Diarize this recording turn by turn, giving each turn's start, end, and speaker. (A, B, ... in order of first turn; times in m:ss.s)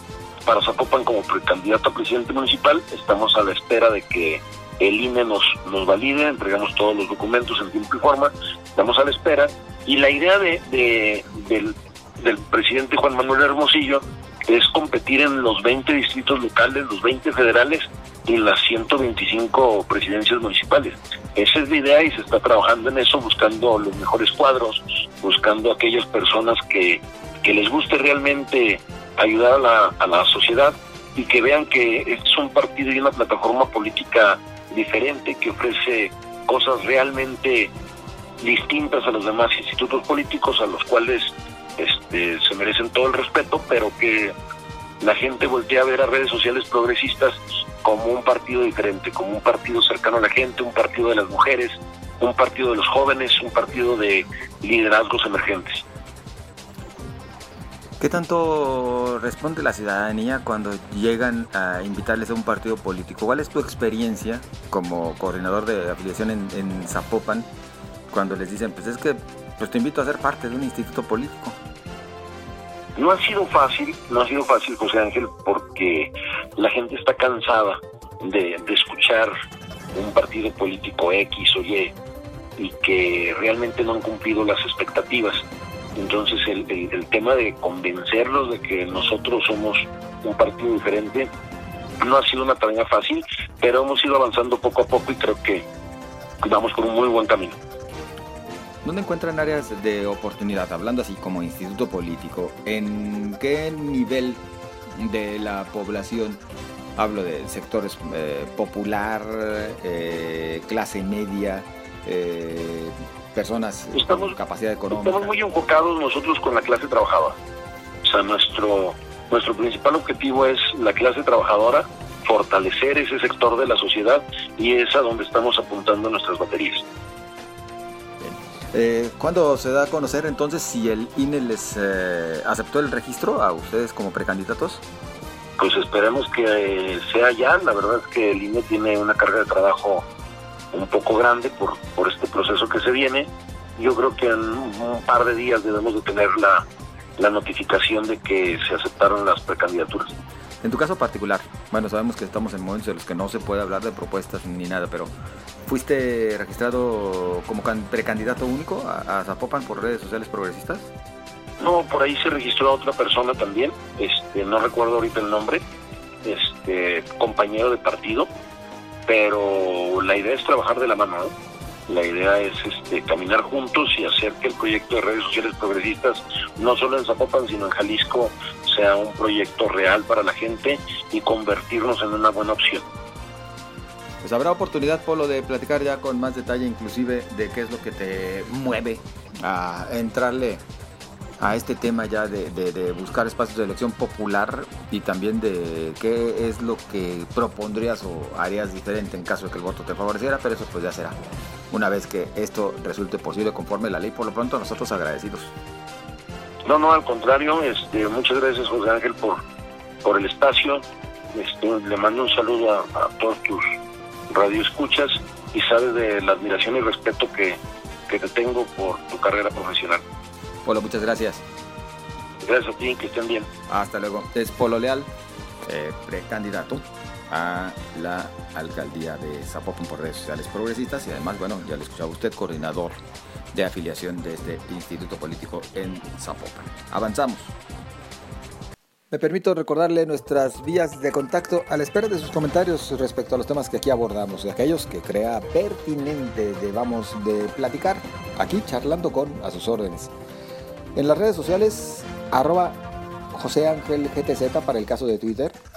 0:00.4-0:37.7 A
0:38.4-0:44.3 A
0:45.0-0:55.8 A
0:58.0-1:07.5 B
1:08.1-1:11.6 B
1:13.0-1:19.3 A
1:20.0-1:22.0 A
1:22.6-1:25.4 A
1:26.0-1:31.3 A
1:32.0-1:35.7 A
1:36.4-1:37.6 A
1:38.8-1:44.4 B
1:45.0-1:46.4 B
1:47.0-1:55.4 B
1:53.9-1:54.4 A
1:54.9-1:57.4 A
1:58.0-2:06.8 A
2:08.2-2:14.8 B
2:15.6-2:20.1 A
2:20.7-2:26.6 A
2:27.2-2:30.2 A
2:30.6-2:35.1 B
2:35.6-2:40.9 B
2:41.6-2:45.6 A
2:46.2-2:48.3 A
2:49.1-2:51.3 A
2:51.9-3:02.8 A
3:04.2-3:10.6 B
3:11.4-3:21.2 B
3:21.7-3:25.5 B
3:26.6-3:29.4 A
3:30.0-3:33.6 A
3:34.3-3:40.0 A
3:40.6-3:41.4 B
3:42.4-3:43.5 A
3:43.7-3:45.1 B
3:45.6-3:53.0 B
3:53.5-3:57.6 B
3:59.1-4:10.1 B
4:11.0-4:12.8 B
4:13.3-4:15.6 B